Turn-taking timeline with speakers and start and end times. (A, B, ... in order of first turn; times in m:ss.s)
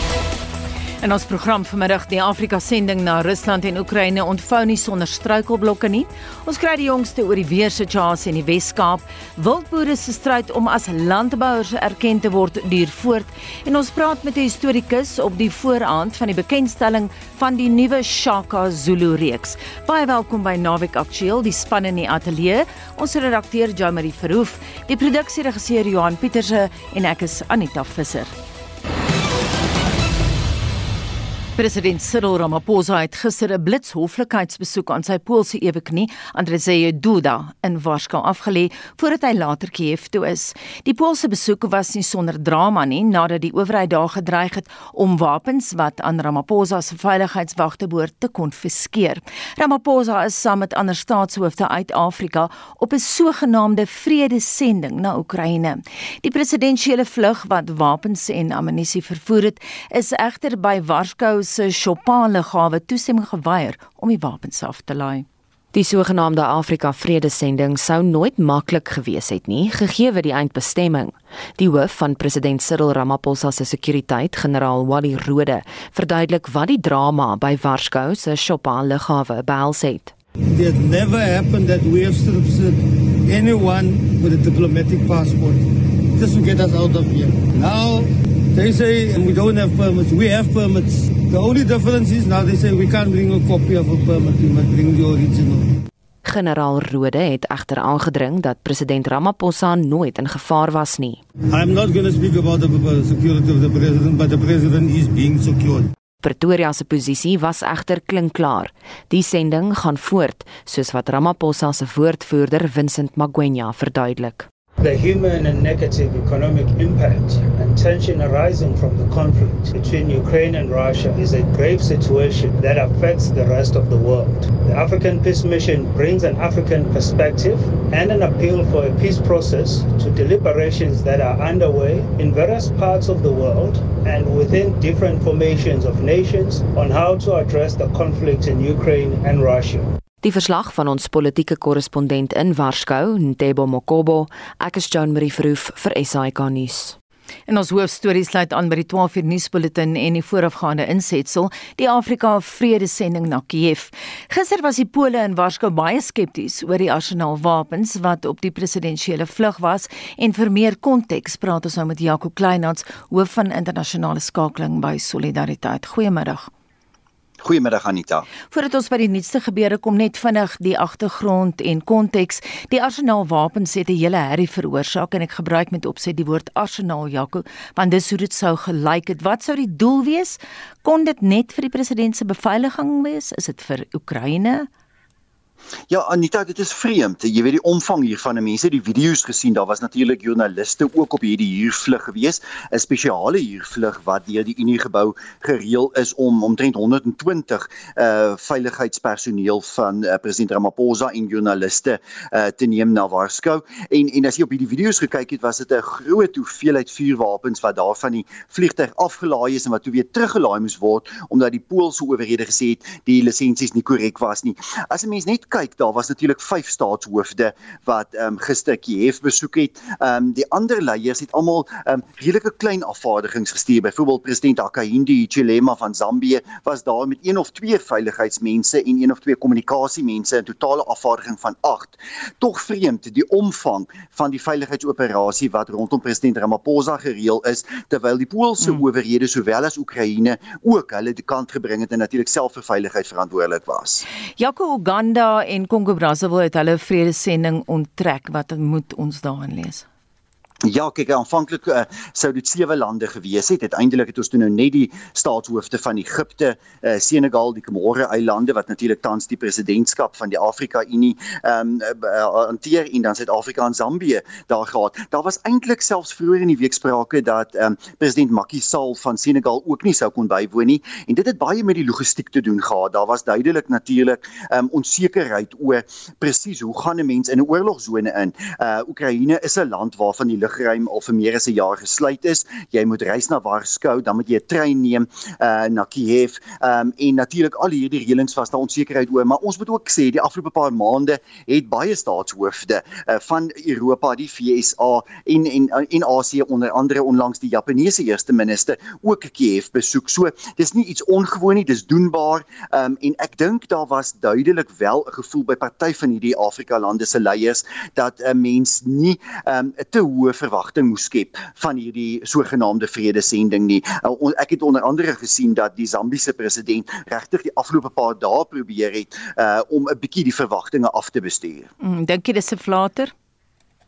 0:01.0-0:28.3 A
0:31.6-1:05.3 A
1:05.7-1:20.1 B
1:20.5-1:35.8 C
1:36.2-1:41.2 B
1:41.5-1:45.9 C
1:46.2-1:54.5 B
1:54.8-2:19.9 D
2:20.2-2:27.0 B
2:27.5-2:46.5 A
2:47.4-2:48.2 E
2:48.5-3:04.7 A
3:05.9-4:04.0 E
4:04.4-4:09.8 A
4:10.6-5:21.7 E
5:21.8-5:23.1 A